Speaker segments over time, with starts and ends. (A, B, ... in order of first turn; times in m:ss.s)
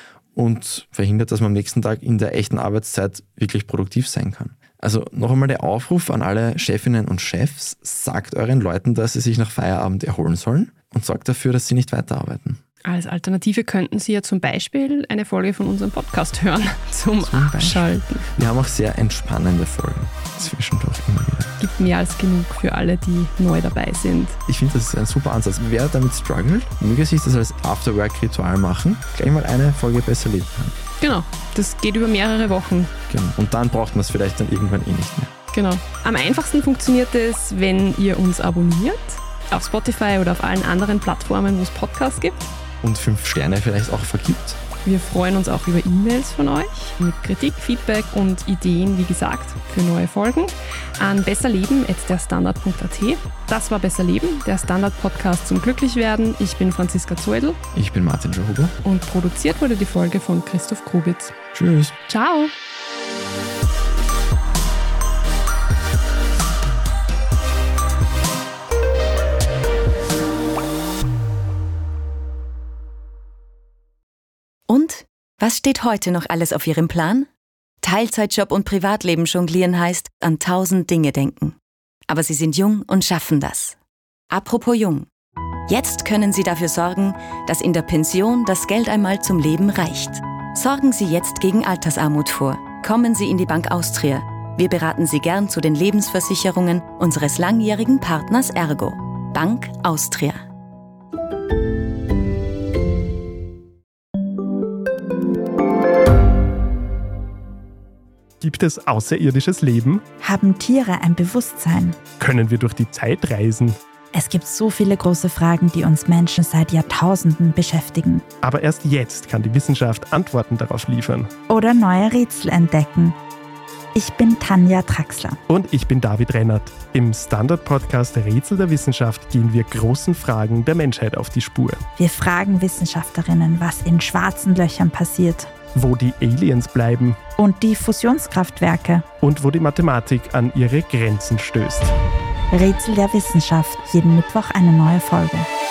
0:00.4-0:12.6 A
0:12.8-0:18.3 B
0:17.2-0:21.5 A
0:21.6-0:24.4 B
0:24.5-0:30.8 A
0:31.0-0:32.9 B
0:33.1-0:35.3 A
0:35.5-0:42.5 B
0:42.8-0:44.6 A
0:44.8-0:57.6 B
0:57.7-0:58.8 A
0:58.8-1:01.4 B
1:01.5-1:02.0 A
1:02.1-1:02.5 B
1:14.7-1:17.3 C
1:17.8-1:21.6 C
1:22.1-1:23.8 C
1:24.3-1:25.1 C
1:25.7-1:40.4 C
1:48.4-1:50.0 D
1:50.2-1:52.0 E
1:52.2-1:53.8 D
1:54.1-1:58.2 E
1:58.4-2:01.3 D
2:01.5-2:03.2 E
2:04.0-2:05.4 E
2:05.5-2:11.8 D
2:12.0-2:15.5 E
2:15.7-2:17.2 D
2:17.4-2:19.1 E
2:19.2-2:21.9 D
2:22.5-2:25.5 E